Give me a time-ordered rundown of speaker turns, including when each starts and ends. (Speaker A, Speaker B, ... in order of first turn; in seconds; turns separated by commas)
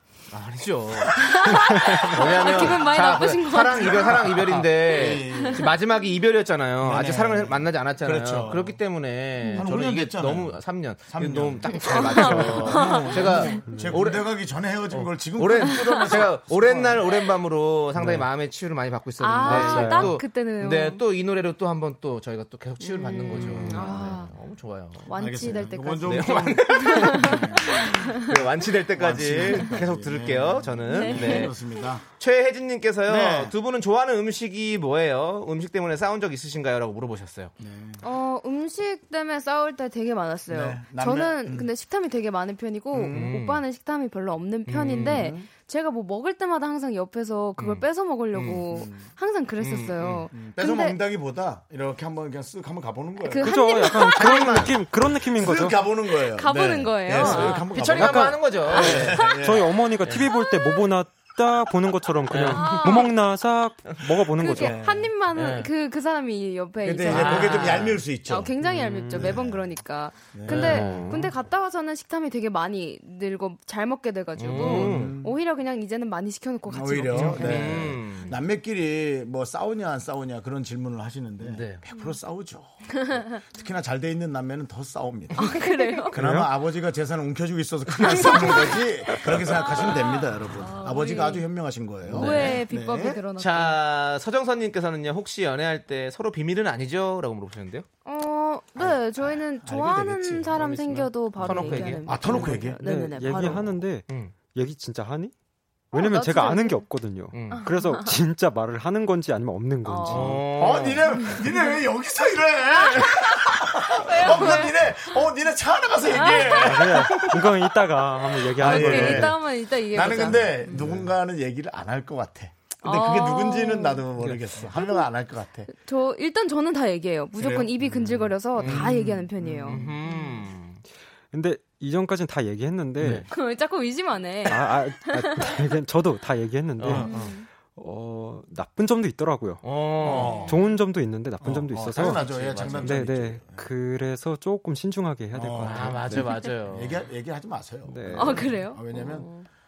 Speaker A: 0.3-14.3, Speaker B: 1.2-2.9, Speaker C: 1.3-5.7, Speaker B: 3.8-5.8, Speaker B: 6.8-8.8, Speaker C: 9.4-9.7, Speaker B: 9.5-17.1, Speaker C: 11.7-13.5, Speaker D: 13.7-14.0, Speaker A: 14.9-31.6, Speaker C: 15.7-16.0, Speaker B: 17.9-18.3, Speaker C: 19.2-21.0, Speaker B: 19.4-20.2, Speaker C: 22.8-24.3, Speaker B: 23.3-24.2, Speaker C: 25.0-28.4, Speaker B: 25.1-32.0, Speaker C: 29.4-29.8, Speaker C: 30.8-31.9, Speaker A: 32.2-37.5, Speaker B: 33.0-33.5, Speaker B: 37.6-38.0, Speaker C: 38.0-51.0, Speaker B: 40.5-41.7, Speaker B: 42.9-43.4, Speaker A: 43.1-43.6, Speaker A: 44.6-45.3, Speaker B: 45.1-45.5, Speaker A: 47.6-48.6, Speaker B: 48.6-49.1, Speaker A: 49.6-50.3, Speaker B: 50.3-53.6, Speaker C: 53.2-54.7, Speaker D: 53.4-55.9, Speaker A: 54.1-54.7, Speaker B: 54.4-59.9, Speaker C: 56.1-57.8, Speaker A: 57.1-59.3, Speaker D: 57.8-58.6, Speaker C: 58.6-59.5, Speaker D: 59.4-64.8, Speaker C: 60.2-60.9, Speaker A: 62.3-63.1, Speaker C: 62.5-63.1, Speaker C: 64.3-78.3, Speaker B: 64.5-65.1, Speaker A: 65.3-65.7, Speaker B: 66.8-71.3, Speaker A: 67.0-68.0, Speaker A: 68.9-69.3, Speaker A: 70.5-71.1, Speaker D: 70.7-71.3, Speaker A: 74.3-75.1, Speaker B: 74.5-75.3, Speaker B: 76.7-93.2, Speaker A: 77.1-78.3, Speaker A: 81.4-81.8, Speaker C: 81.9-82.2, Speaker C: 83.0-83.4, Speaker C: 85.3-86.3, Speaker D: 86.1-86.5, Speaker C: 87.9-91.5, Speaker C: 92.1-93.8, Speaker A: 92.1-92.6, Speaker A: 93.4-97.8, Speaker C: 98.0-103.7, Speaker B: 98.8-102.8, Speaker A: 101.4-102.7, Speaker D: 102.7-105.3, Speaker A: 104.1-104.3, Speaker C: 105.9-106.9, Speaker D: 105.9-110.5, Speaker A: 107.3-107.7, Speaker C: 107.5-108.1, Speaker C: 109.8-110.4, Speaker A: 110.1-111.3, Speaker B: 110.3-117.7, Speaker C: 111.1-111.8, Speaker C: 112.8-115.3, Speaker C: 116.1-117.3, Speaker D: 116.5-119.4, Speaker B: 118.4-125.7, Speaker C: 118.5-121.0, Speaker A: 120.7-121.0, Speaker C: 122.8-124.1, Speaker D: 124.2-124.4, Speaker C: 125.7-130.5, Speaker B: 127.3-129.9, Speaker A: 128.6-129.1, Speaker A: 129.6-130.8, Speaker D: 131.3-133.2, Speaker B: 133.0-133.2, Speaker A: 133.0-133.3, Speaker C: 133.3-135.7, Speaker D: 134.5-142.2, Speaker A: 136.8-137.3, Speaker B: 136.9-137.3, Speaker C: 137.0-137.5, Speaker A: 139.6-140.6, Speaker B: 140.0-140.6, Speaker C: 140.2-140.5, Speaker B: 141.4-143.7, Speaker A: 141.9-143.0, Speaker D: 142.8-146.3, Speaker B: 145.3-149.3, Speaker A: 145.6-147.1, Speaker D: 147.8-148.6, Speaker C: 148.1-149.5